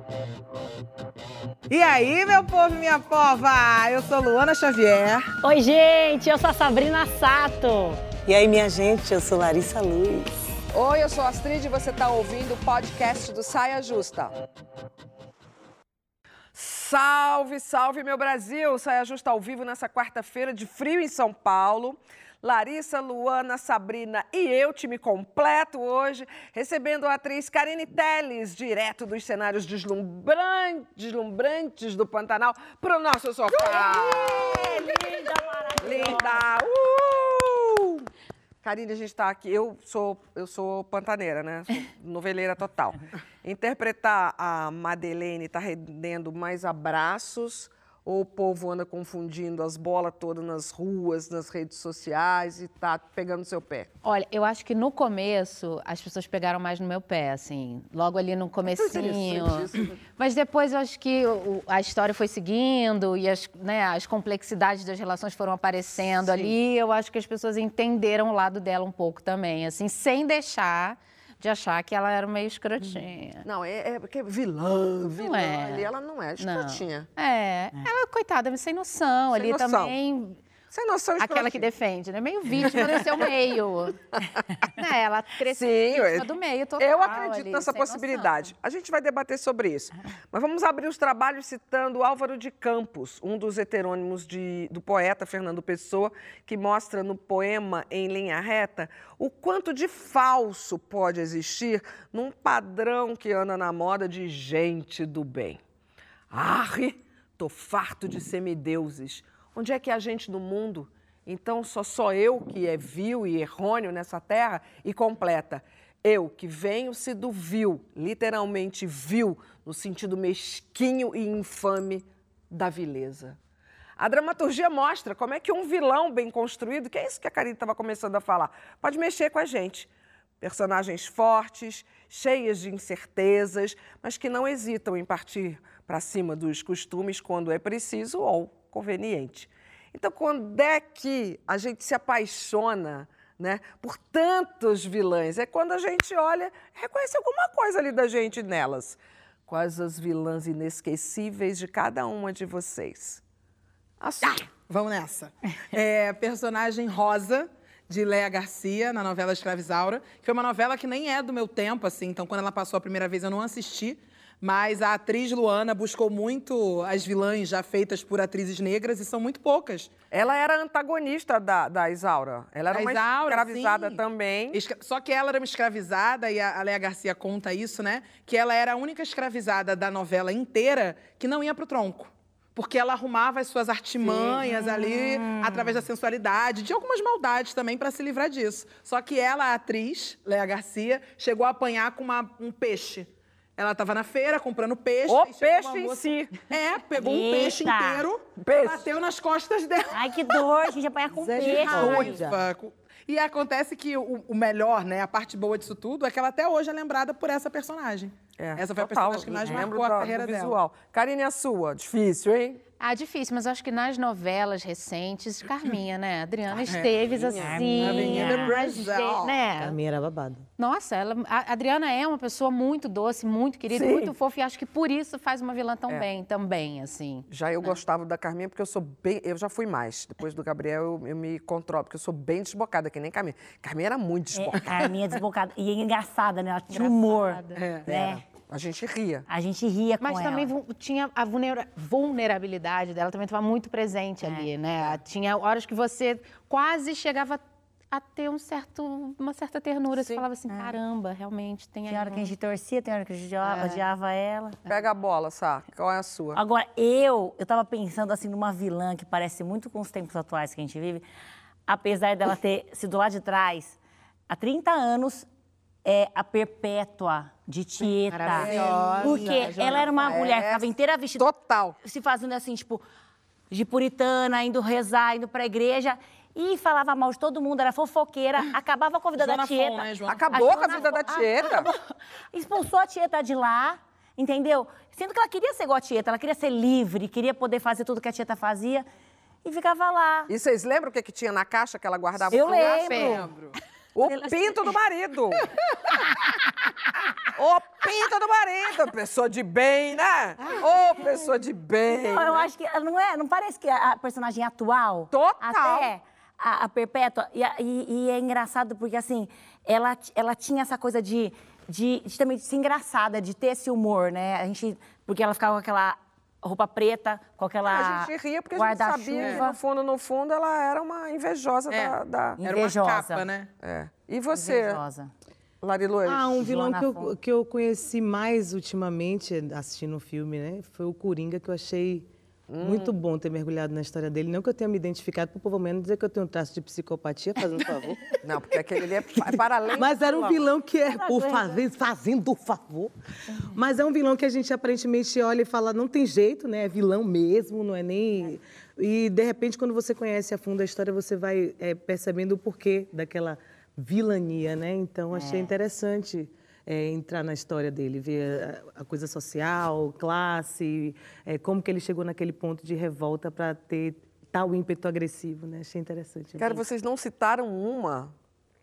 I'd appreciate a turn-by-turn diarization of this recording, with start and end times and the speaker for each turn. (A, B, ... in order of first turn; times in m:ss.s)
0:01.7-0:05.3 A
0:05.4-0:07.9 B
0:08.1-0:10.3 C
0:10.7-0:14.3 D
0:16.5-0:35.0 D
0:33.5-0:36.4 B
0:35.8-0:38.0 D
0:38.6-0:53.9 D
0:54.0-1:13.5 E
0:58.6-1:00.0 D
1:13.4-1:17.1 D
1:15.2-1:15.9 E
1:16.4-1:20.4 E
1:19.3-1:20.0 D
1:20.7-1:21.7 D
1:21.2-1:24.0 E
1:22.6-1:23.3 D
1:24.8-1:28.5 E
1:25.5-1:45.6 D
1:46.3-2:03.4 D
2:04.0-2:09.9 D
2:10.4-2:33.2 D
2:34.0-2:34.4 D
2:34.2-2:49.9 A
2:50.1-2:54.6 D
2:52.7-2:54.0 A
2:54.5-3:20.5 A
3:04.0-3:04.4 D
3:15.1-3:16.3 D
3:17.0-3:18.0 B
3:18.4-3:18.9 D
3:19.9-3:22.2 B
3:21.1-3:22.4 C
3:21.4-3:30.6 A
3:28.4-3:32.6 D
3:32.8-3:39.8 E
3:37.1-3:39.4 D
3:37.4-3:38.5 B
3:37.8-3:38.7 A
3:39.6-3:40.5 C
3:40.6-3:47.3 E
3:43.7-3:44.1 D
3:47.3-3:54.8 D
3:54.4-3:58.2 B
3:56.7-3:57.6 E
3:57.6-3:57.9 A
3:57.9-3:59.3 D
3:59.3-4:00.5 B
4:00.0-4:07.4 E
4:04.2-4:04.5 B
4:07.9-4:12.3 E
4:09.9-4:10.2 D
4:10.5-4:10.8 B
4:11.9-4:14.6 B
4:13.4-4:13.8 E
4:14.7-4:16.4 D
4:16.3-4:21.1 B
4:21.7-4:23.8 B
4:24.3-4:25.3 B
4:25.8-4:31.3 B
4:28.0-4:30.1 E
4:28.3-4:31.8 D
4:28.4-4:29.7 A
4:31.8-4:32.8 B
4:33.5-4:41.8 B
4:39.2-4:41.0 A
4:40.1-4:41.7 D
4:42.3-4:48.9 B
4:49.4-4:50.3 B
4:50.3-4:53.0 D
4:52.3-4:53.6 A
4:52.3-4:53.3 B
4:52.9-4:53.2 E
4:54.0-4:55.5 D
4:54.1-4:54.6 B
4:57.3-5:02.5 D
5:02.0-5:19.6 B
5:05.1-5:05.9 D
5:17.6-5:22.4 D
5:19.2-5:19.4 A
5:21.7-5:23.5 A
5:22.4-5:23.2 B
5:23.6-5:24.8 D
5:24.3-5:25.1 B
5:25.6-5:26.4 D
5:26.1-5:32.1 C
5:26.4-5:27.1 B
5:32.5-5:32.9 D
5:32.6-5:38.1 C
5:38.2-5:40.4 D
5:39.7-5:42.9 C
5:40.9-5:41.6 B
5:43.5-6:06.6 C
5:55.1-5:55.5 B
6:06.4-6:08.1 D